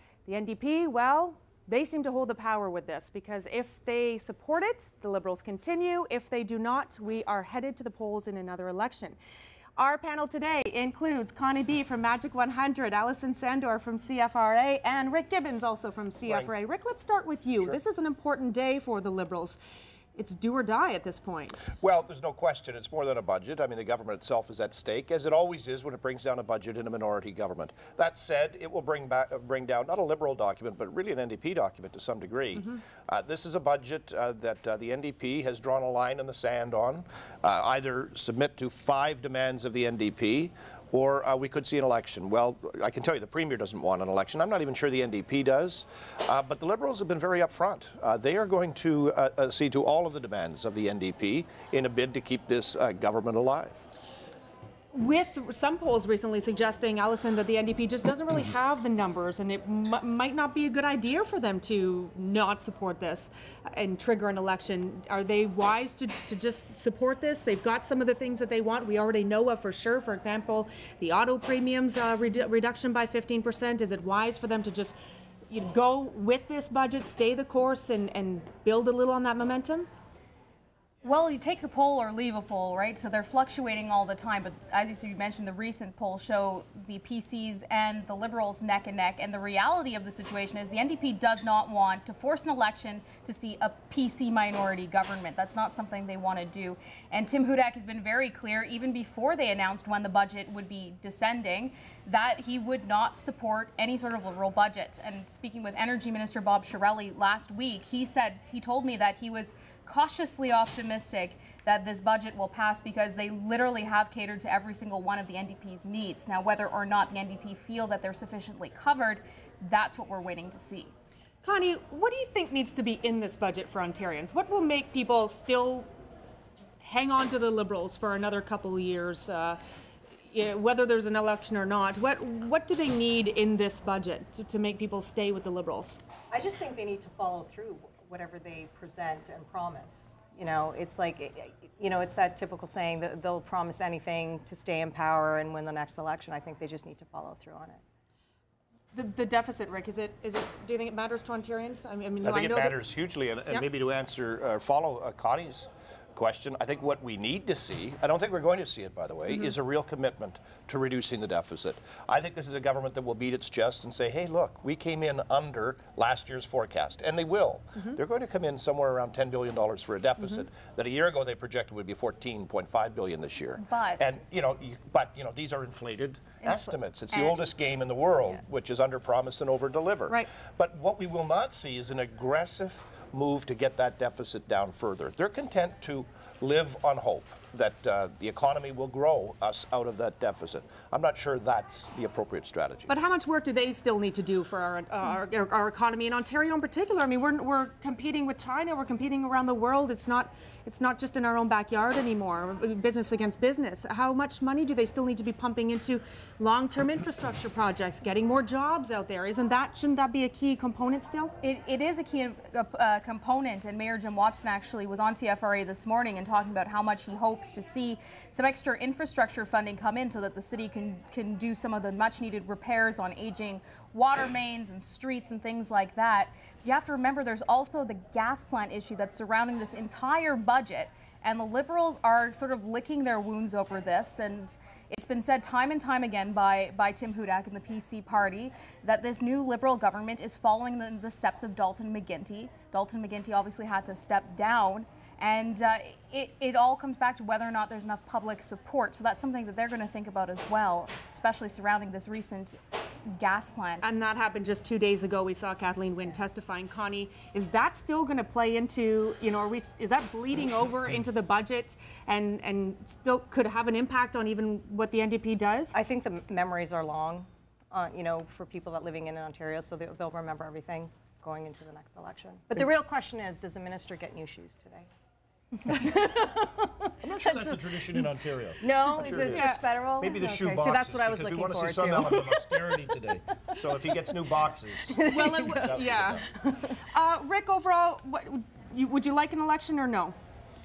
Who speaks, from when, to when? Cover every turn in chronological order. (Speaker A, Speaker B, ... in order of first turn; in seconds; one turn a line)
Speaker A: 0.3-9.2
Speaker A: 9.8-19.6
Speaker A: 20.2-21.7
Speaker B: 21.8-53.8
Speaker A: 54.9-75.0
Speaker A: 75.5-79.9
Speaker C: 81.0-120.9
Speaker A: 121.4-125.9
Speaker A: 126.8-129.6
Speaker A: 130.3-136.0
Speaker D: 136.3-147.8
Speaker A: 148.9-152.8
Speaker B: 152.2-192.9
Speaker C: 173.6-174.1
Speaker C: 176.4-177.4
Speaker A: 192.9-211.3
Speaker C: 211.4-253.9
Speaker A: 253.8-265.8
Speaker D: 265.7-274.9
Speaker D: 275.6-276.7
Speaker B: 277.0-286.3
Speaker D: 278.6-282.9
Speaker A: 279.2-279.6
Speaker D: 284.9-285.6
Speaker A: 285.0-290.1